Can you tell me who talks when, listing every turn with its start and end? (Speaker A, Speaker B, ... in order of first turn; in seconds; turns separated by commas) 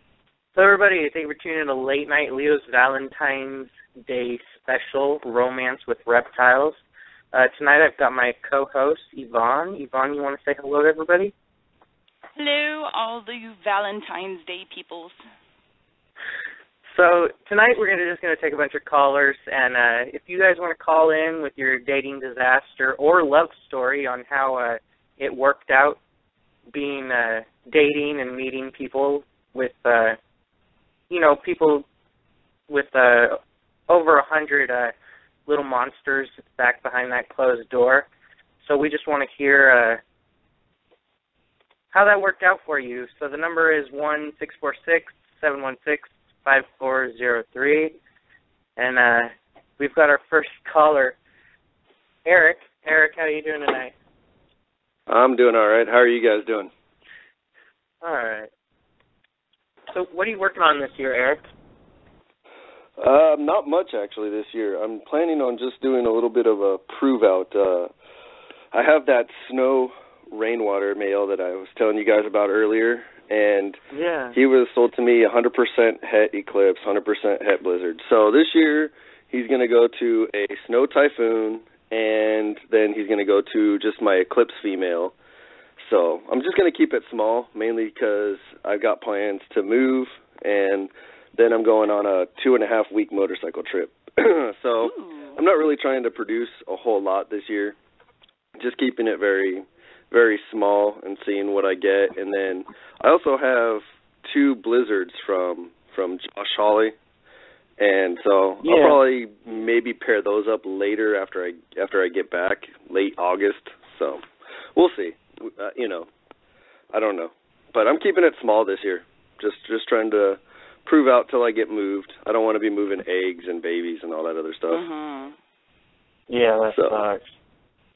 Speaker A: 0.6-6.8, Speaker A: 7.3-11.3, Speaker B: 12.4-15.2, Speaker A: 16.9-26.0, Speaker A: 26.7-30.2, Speaker A: 31.1-31.9, Speaker A: 32.7-34.9, Speaker A: 35.5-38.1, Speaker A: 38.6-40.0, Speaker A: 41.9-48.0, Speaker A: 48.8-51.2, Speaker A: 52.2-53.9, Speaker C: 55.1-56.7, Speaker A: 58.0-58.5, Speaker A: 59.9-61.4, Speaker C: 63.0-67.9, Speaker C: 68.7-73.8, Speaker A: 73.9-74.4, Speaker C: 74.3-85.1, Speaker C: 85.8-97.8, Speaker B: 94.8-95.4, Speaker C: 98.6-106.9, Speaker C: 107.8-114.2, Speaker A: 108.6-109.0, Speaker C: 114.8-116.1, Speaker C: 116.9-124.8, Speaker B: 124.7-125.4, Speaker A: 126.3-127.2, Speaker C: 126.7-127.0